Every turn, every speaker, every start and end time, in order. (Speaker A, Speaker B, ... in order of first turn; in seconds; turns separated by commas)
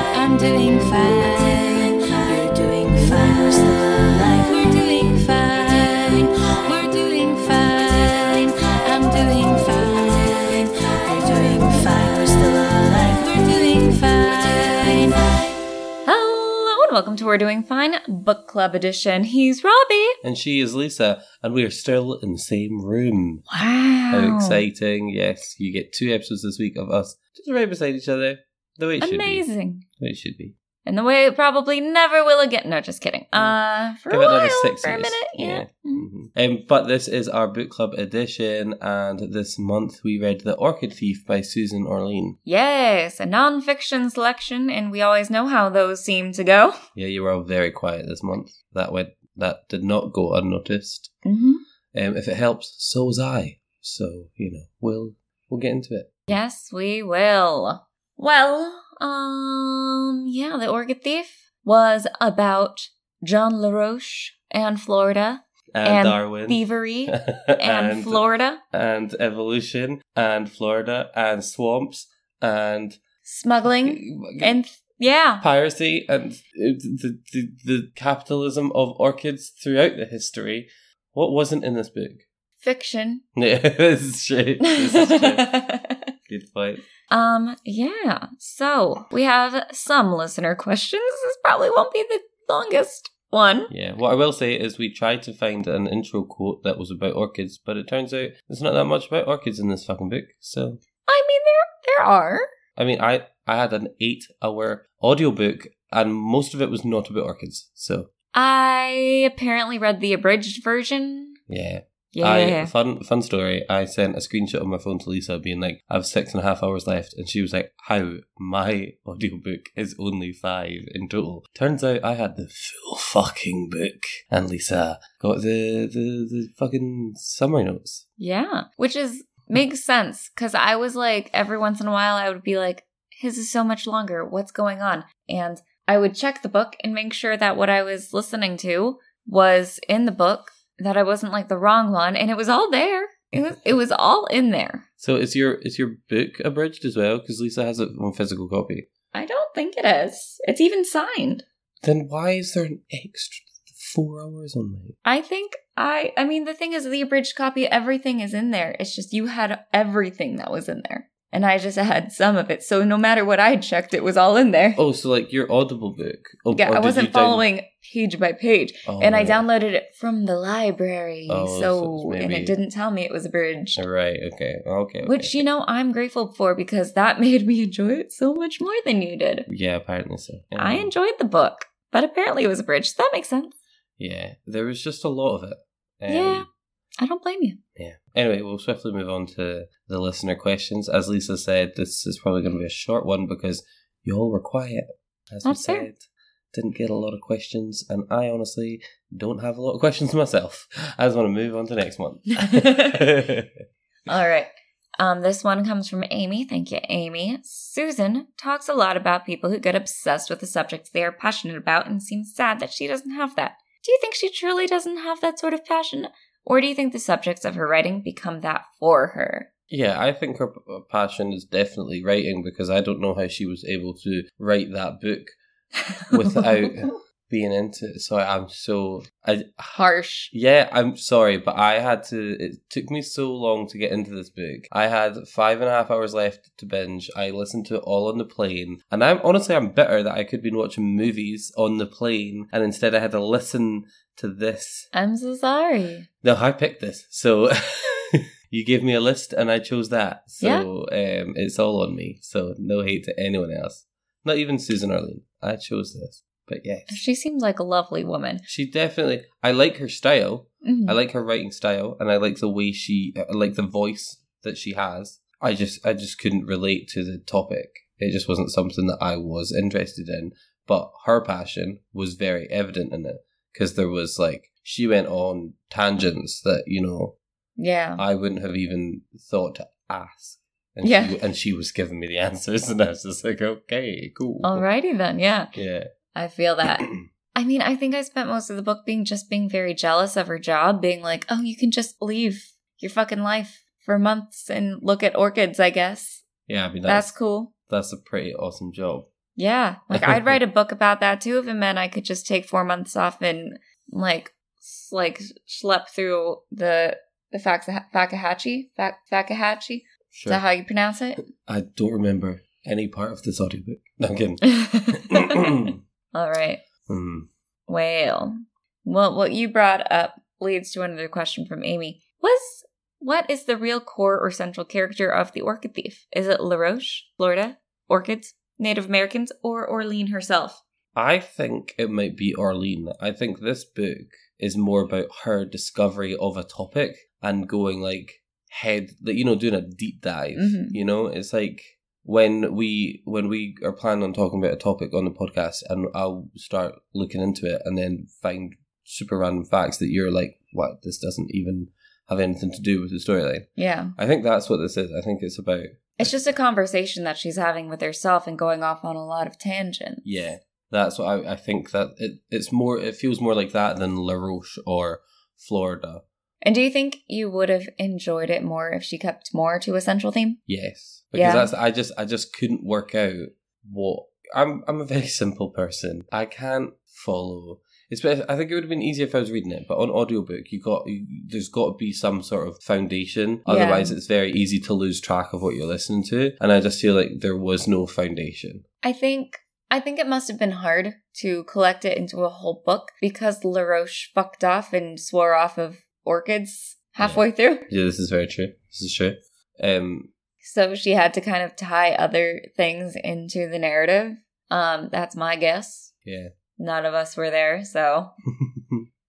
Speaker A: 0.1-1.7, Speaker B: 0.2-1.6, Speaker A: 2.3-6.0, Speaker B: 4.6-6.0, Speaker A: 6.7-8.2, Speaker A: 8.9-10.3, Speaker B: 9.8-10.1, Speaker A: 11.1-14.1, Speaker B: 11.2-11.6, Speaker B: 13.4-15.1, Speaker B: 16.1-20.2, Speaker C: 20.2-23.4, Speaker B: 23.5-24.6, Speaker C: 24.1-29.4, Speaker B: 29.0-29.8, Speaker C: 30.0-30.6, Speaker B: 30.9-36.1, Speaker C: 34.1-42.4, Speaker B: 42.5-46.8, Speaker C: 47.0-51.1, Speaker B: 51.2-51.6, Speaker C: 51.9-56.3, Speaker B: 56.3-68.6, Speaker C: 65.7-73.0, Speaker B: 73.2-75.4, Speaker C: 73.8-74.6, Speaker C: 75.4-82.2, Speaker B: 82.6-83.2, Speaker C: 83.3-85.5, Speaker B: 84.6-86.1, Speaker C: 86.3-86.8, Speaker B: 87.1-93.7, Speaker C: 93.7-100.8, Speaker B: 101.1-102.5, Speaker C: 102.8-108.1, Speaker B: 108.3-111.4, Speaker C: 111.5-128.1, Speaker B: 112.1-112.7, Speaker B: 128.2-144.8, Speaker C: 145.0-148.9, Speaker B: 149.1-151.4, Speaker C: 151.8-155.0, Speaker B: 155.0-164.8, Speaker C: 164.8-167.4, Speaker B: 166.6-173.8, Speaker C: 168.9-169.5, Speaker C: 171.3-172.6, Speaker C: 173.8-175.4, Speaker B: 175.1-179.5, Speaker C: 179.5-180.9, Speaker B: 180.6-183.5, Speaker C: 184.0-186.5, Speaker B: 186.1-186.5, Speaker B: 187.0-187.6, Speaker C: 187.8-203.5, Speaker B: 195.4-195.9, Speaker B: 202.4-203.1, Speaker B: 204.1-219.5, Speaker C: 219.7-225.3, Speaker B: 226.0-226.7, Speaker C: 226.1-229.8, Speaker B: 229.7-230.3, Speaker C: 230.3-244.9, Speaker B: 244.9-246.1, Speaker C: 246.2-257.0, Speaker B: 250.4-250.7, Speaker B: 256.9-258.4, Speaker C: 258.5-277.2, Speaker B: 260.6-261.0, Speaker B: 277.6-278.0, Speaker C: 278.0-284.6, Speaker B: 280.8-281.2, Speaker B: 284.4-285.5, Speaker C: 285.5-285.9, Speaker B: 286.1-296.2, Speaker C: 296.5-297.1, Speaker B: 296.9-297.5, Speaker C: 297.7-299.1, Speaker B: 299.4-311.2, Speaker C: 299.9-300.4, Speaker C: 310.1-310.4, Speaker C: 311.3-315.8, Speaker B: 314.4-316.6, Speaker C: 316.9-317.3, Speaker B: 317.7-330.6, Speaker C: 330.9-356.1, Speaker B: 340.4-340.8, Speaker B: 353.6-353.9, Speaker B: 356.0-360.0, Speaker C: 360.0-366.0, Speaker B: 366.4-370.4, Speaker C: 370.5-388.6, Speaker B: 371.1-371.5, Speaker B: 383.5-384.0, Speaker B: 388.8-397.7, Speaker C: 397.0-400.1, Speaker B: 400.4-405.9, Speaker C: 406.1-406.3, Speaker B: 406.6-408.1, Speaker C: 408.4-408.9